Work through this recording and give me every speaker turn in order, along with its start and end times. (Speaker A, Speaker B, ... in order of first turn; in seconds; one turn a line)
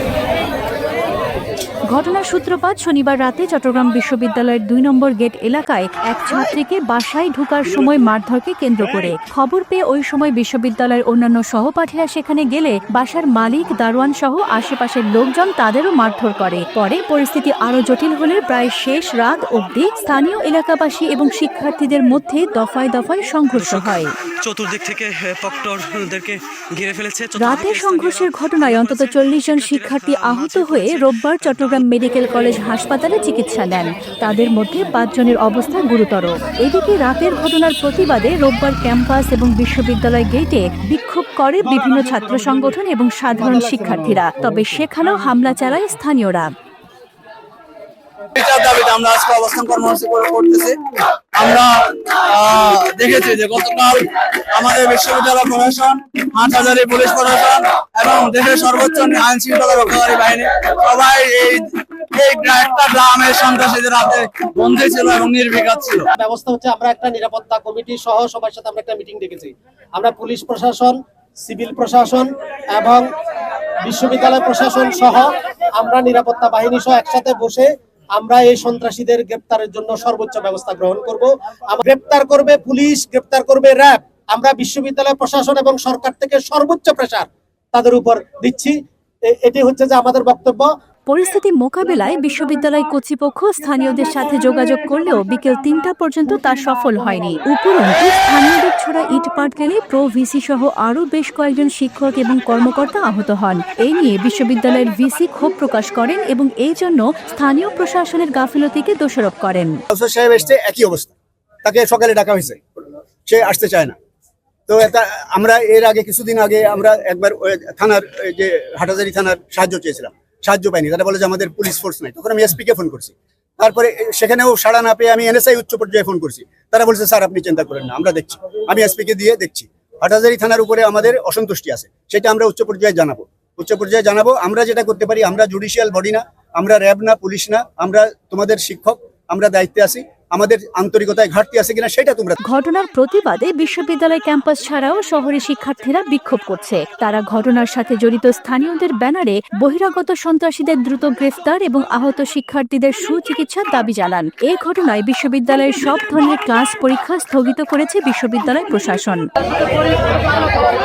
Speaker A: 1.9-24.1
Speaker B: 23.6-31.0
Speaker A: 27.4-46.5
Speaker C: 48.4-66.1
Speaker D: 66.1-73.1
Speaker D: 73.8-88.8
Speaker D: 89.3-90.7
Speaker A: 91.1-109.8
Speaker E: 109.9-111.1
Speaker E: 111.6-113.9
Speaker E: 114.7-142.4
Speaker A: 142.4-159.3